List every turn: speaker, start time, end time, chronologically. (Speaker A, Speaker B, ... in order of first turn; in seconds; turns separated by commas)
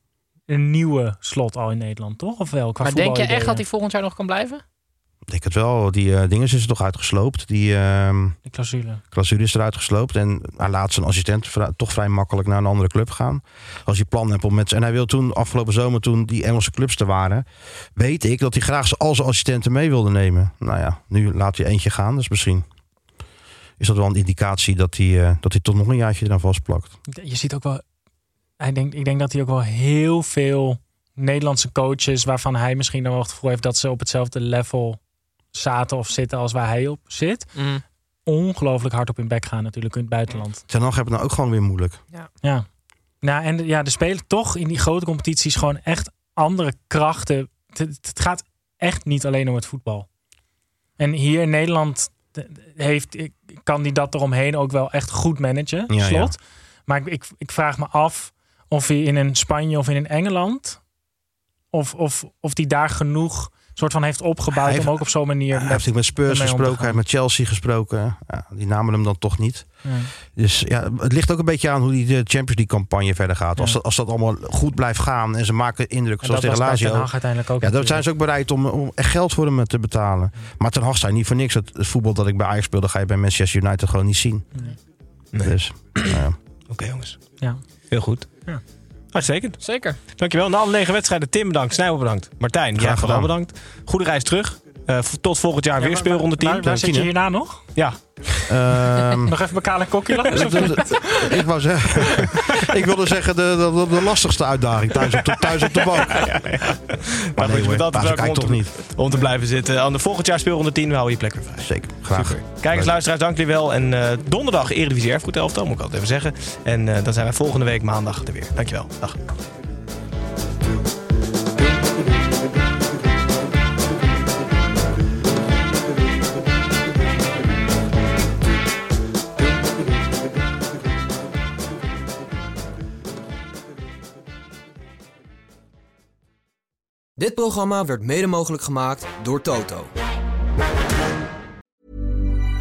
Speaker A: 0.5-3.6, Speaker B: 2.8-4.6, Speaker C: 5.3-8.4, Speaker A: 8.4-9.0, Speaker C: 9.1-22.6, Speaker C: 23.8-27.0, Speaker A: 27.1-27.8, Speaker A: 28.6-35.0, Speaker A: 35.5-37.5, Speaker B: 37.5-37.8, Speaker A: 38.2-40.6, Speaker C: 40.7-42.0, Speaker A: 42.4-42.7, Speaker A: 43.2-50.1, Speaker A: 51.0-60.8, Speaker C: 55.9-56.3, Speaker A: 61.7-67.0, Speaker C: 64.5-84.5, Speaker A: 69.8-70.1, Speaker A: 76.2-78.0, Speaker D: 85.3-86.2, Speaker C: 85.4-86.4, Speaker D: 86.7-87.2, Speaker D: 87.9-88.4, Speaker D: 89.1-96.8, Speaker B: 89.6-90.0, Speaker C: 92.7-93.3, Speaker A: 95.8-97.6, Speaker C: 96.6-97.1, Speaker D: 97.7-98.4, Speaker C: 98.4-99.3, Speaker A: 99.2-101.3, Speaker C: 100.3-106.5, Speaker D: 106.0-119.2, Speaker C: 107.3-108.8, Speaker C: 111.6-112.9, Speaker E: 137.2-139.9